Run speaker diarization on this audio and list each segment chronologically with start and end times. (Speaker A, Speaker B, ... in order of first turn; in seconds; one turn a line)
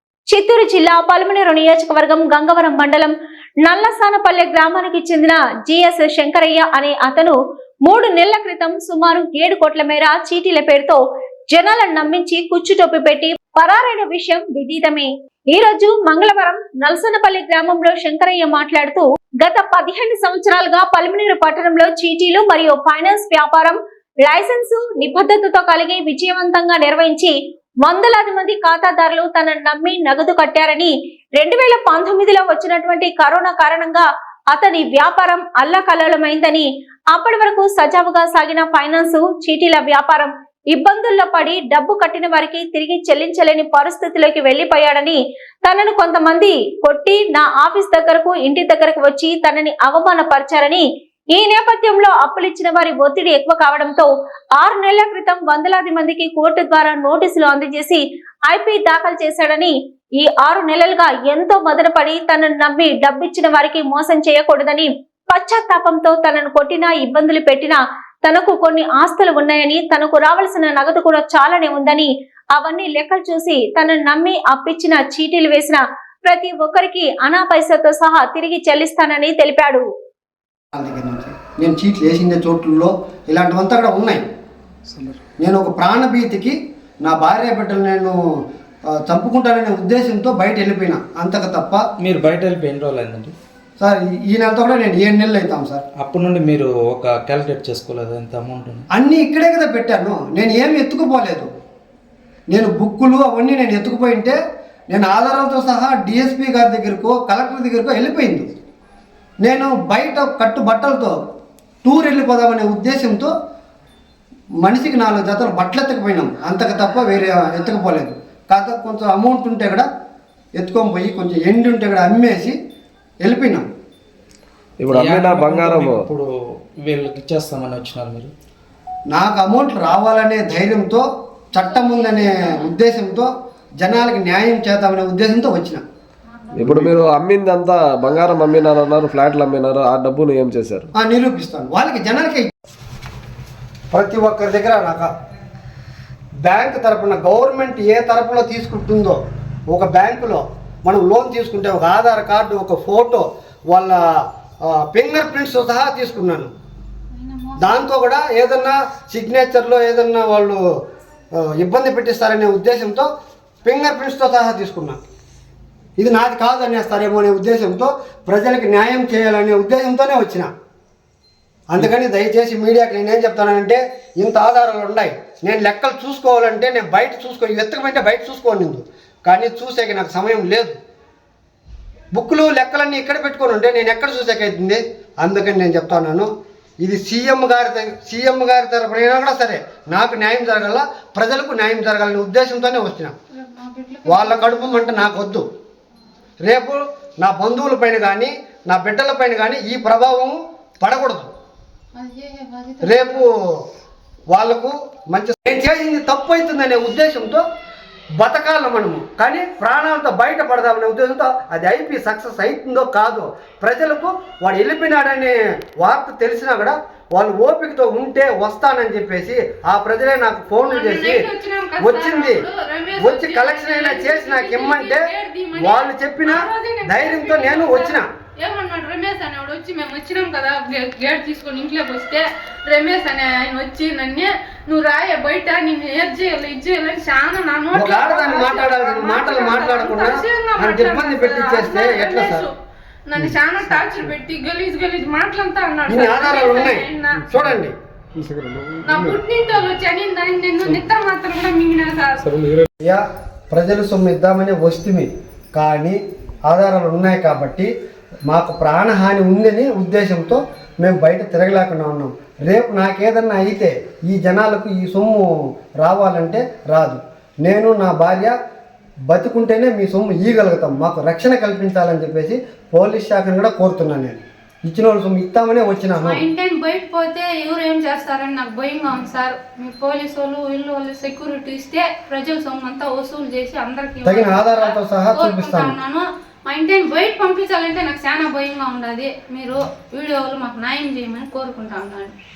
Speaker A: 0.3-79.8
Speaker B: 80.7-84.2
Speaker B: 85.4-88.2
Speaker B: 89.0-91.8
Speaker C: 92.0-93.3
Speaker B: 93.8-95.8
Speaker C: 96.0-98.8
Speaker B: 98.9-101.5
Speaker B: 102.5-104.4
Speaker B: 104.9-108.5
Speaker B: 109.4-111.1
Speaker B: 111.8-113.3
Speaker B: 114.6-119.8
Speaker B: 120.6-122.5
Speaker B: 123.2-123.7
Speaker D: 124.8-126.0
Speaker C: 124.9-126.3
Speaker C: 126.8-128.3
Speaker B: 129.1-133.3
Speaker E: 131.8-132.7
Speaker B: 133.8-135.8
Speaker D: 136.5-140.9
Speaker B: 140.9-142.5
Speaker B: 143.9-145.1
Speaker B: 146.4-149.2
Speaker B: 149.7-154.0
Speaker B: 154.7-156.5
Speaker E: 157.1-157.8
Speaker B: 157.6-160.6
Speaker B: 161.3-163.1
Speaker B: 163.6-165.0
Speaker B: 166.0-170.5
Speaker B: 171.7-180.7
Speaker B: 182.1-186.3
Speaker B: 186.8-193.1
Speaker E: 193.4-194.7
Speaker B: 194.1-195.4
Speaker B: 196.4-201.3
Speaker E: 201.9-203.2
Speaker B: 202.8-203.5
Speaker B: 204.3-207.4
Speaker B: 208.2-221.3
Speaker E: 220.7-242.5
Speaker B: 221.8-222.4
Speaker B: 223.0-228.1
Speaker B: 237.7-242.5
Speaker E: 243.1-247.3
Speaker B: 245.9-247.7
Speaker E: 248.8-252.4
Speaker B: 252.8-257.7
Speaker B: 258.2-265.3
Speaker B: 265.8-268.3
Speaker B: 269.1-276.2
Speaker E: 276.0-292.1
Speaker B: 284.0-285.8